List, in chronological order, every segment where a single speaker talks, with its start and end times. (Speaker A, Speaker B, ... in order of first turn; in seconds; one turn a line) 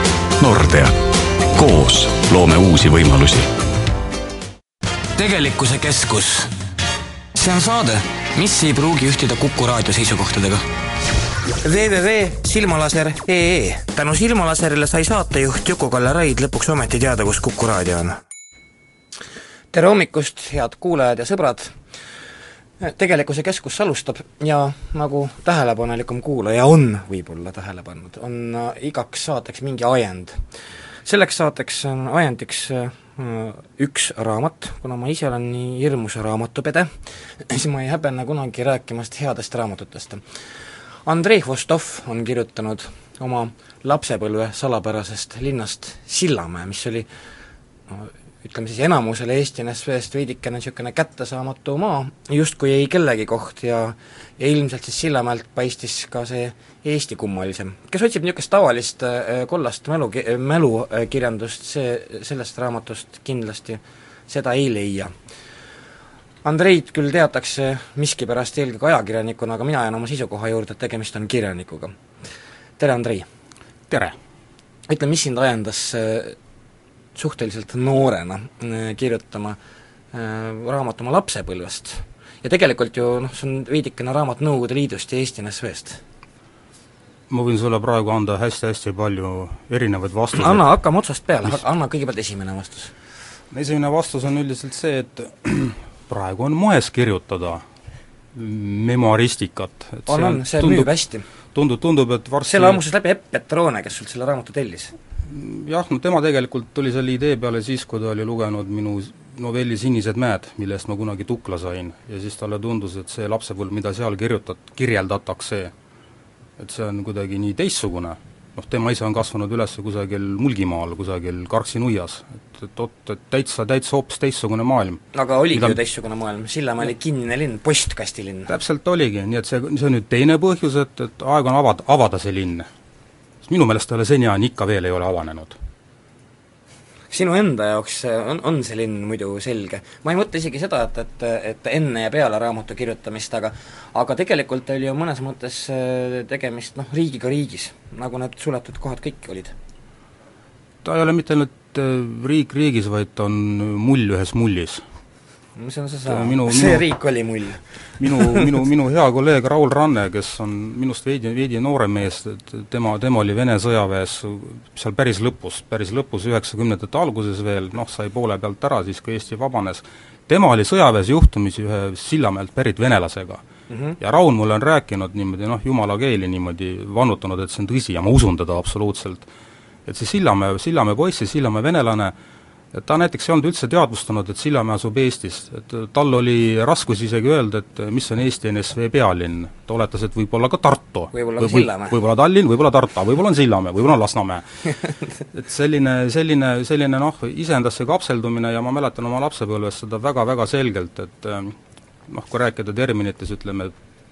Speaker A: 0.4-1.0
Speaker A: 1.5-3.5
Speaker B: 5.2-6.5
Speaker B: 7.3-10.7
Speaker B: 11.6-18.2
Speaker B: 19.7-21.8
Speaker B: 22.8-30.5
Speaker B: 31.1-40.2
Speaker B: 41.0-47.1
Speaker B: 47.9-65.1
Speaker B: 66.4-72.0
Speaker B: 72.8-73.3
Speaker C: 73.9-74.2
Speaker B: 74.9-76.4
Speaker B: 77.2-79.6
Speaker B: 80.1-86.0
Speaker C: 87.3-90.7
Speaker B: 90.3-92.9
Speaker C: 93.5-97.6
Speaker C: 98.3-100.9
Speaker B: 100.1-101.2
Speaker C: 101.5-102.8
Speaker B: 102.5-105.0
Speaker C: 105.3-115.7
Speaker C: 116.6-125.8
Speaker B: 125.1-128.5
Speaker C: 128.5-132.7
Speaker C: 133.4-135.6
Speaker B: 137.1-149.6
Speaker C: 150.8-154.8
Speaker B: 155.6-158.5
Speaker C: 156.1-156.9
Speaker C: 158.0-173.4
Speaker B: 173.7-174.0
Speaker C: 174.0-179.3
Speaker C: 179.9-182.1
Speaker C: 182.7-194.8
Speaker B: 191.1-191.9
Speaker C: 195.3-201.6
Speaker C: 202.1-203.7